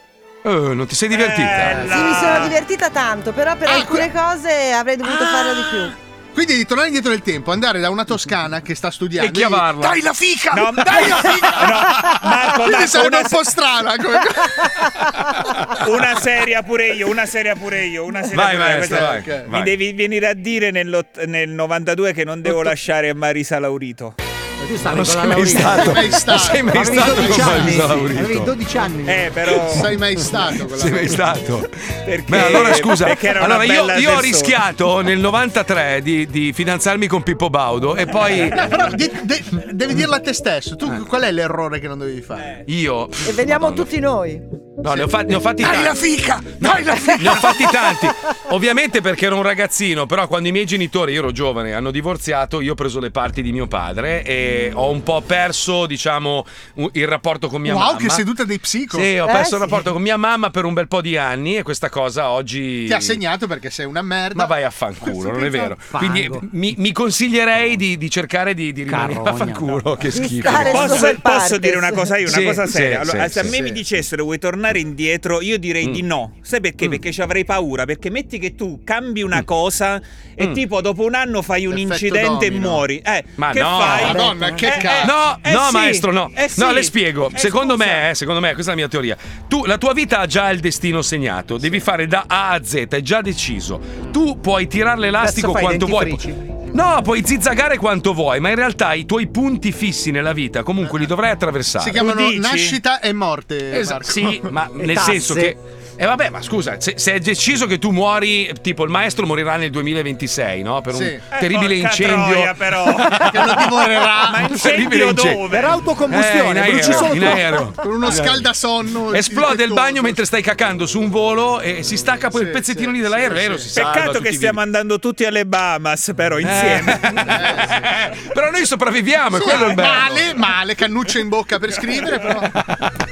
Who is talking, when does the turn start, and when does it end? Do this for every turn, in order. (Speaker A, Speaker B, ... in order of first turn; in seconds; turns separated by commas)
Speaker A: 0.4-2.0, Speaker B: 1.1-2.5, Speaker C: 1.8-5.9, Speaker D: 3.7-4.1, Speaker D: 5.0-14.9, Speaker A: 9.2-10.0, Speaker B: 10.5-13.4, Speaker A: 15.3-15.6, Speaker B: 15.8-24.1, Speaker A: 18.3-19.8, Speaker D: 18.7-19.5, Speaker E: 24.6-29.3, Speaker A: 24.9-28.5, Speaker D: 25.6-27.9, Speaker B: 29.1-29.9, Speaker D: 29.6-31.3, Speaker A: 30.6-31.7, Speaker B: 32.0-34.6, Speaker A: 32.3-38.7, Speaker B: 38.3-38.5, Speaker D: 38.5-42.6, Speaker B: 42.4-42.6, Speaker A: 42.7-43.9, Speaker C: 43.2-44.4, Speaker A: 44.8-58.2, Speaker D: 44.9-47.8, Speaker D: 57.6-59.1, Speaker A: 58.9-63.2, Speaker C: 59.2-59.8, Speaker D: 62.9-65.7, Speaker A: 64.3-71.1, Speaker E: 65.9-66.5, Speaker E: 68.9-69.8, Speaker C: 70.1-72.2, Speaker B: 70.5-88.1, Speaker A: 72.3-73.6, Speaker D: 73.4-73.8, Speaker D: 81.7-82.9, Speaker A: 83.4-84.3, Speaker D: 83.8-85.2, Speaker A: 84.9-102.0, Speaker E: 95.2-96.4, Speaker D: 101.8-104.5, Speaker B: 102.0-102.8, Speaker A: 103.7-113.3, Speaker E: 104.8-105.5, Speaker D: 110.9-111.3, Speaker B: 111.3-113.5, Speaker D: 113.2-114.5, Speaker B: 114.2-115.9, Speaker A: 114.4-115.5, Speaker E: 115.5-117.6, Speaker A: 116.1-118.5, Speaker D: 117.8-120.2, Speaker A: 119.1-124.6, Speaker D: 122.3-123.7, Speaker B: 123.7-127.3, Speaker A: 126.4-130.3, Speaker D: 127.3-127.9, Speaker D: 129.3-132.5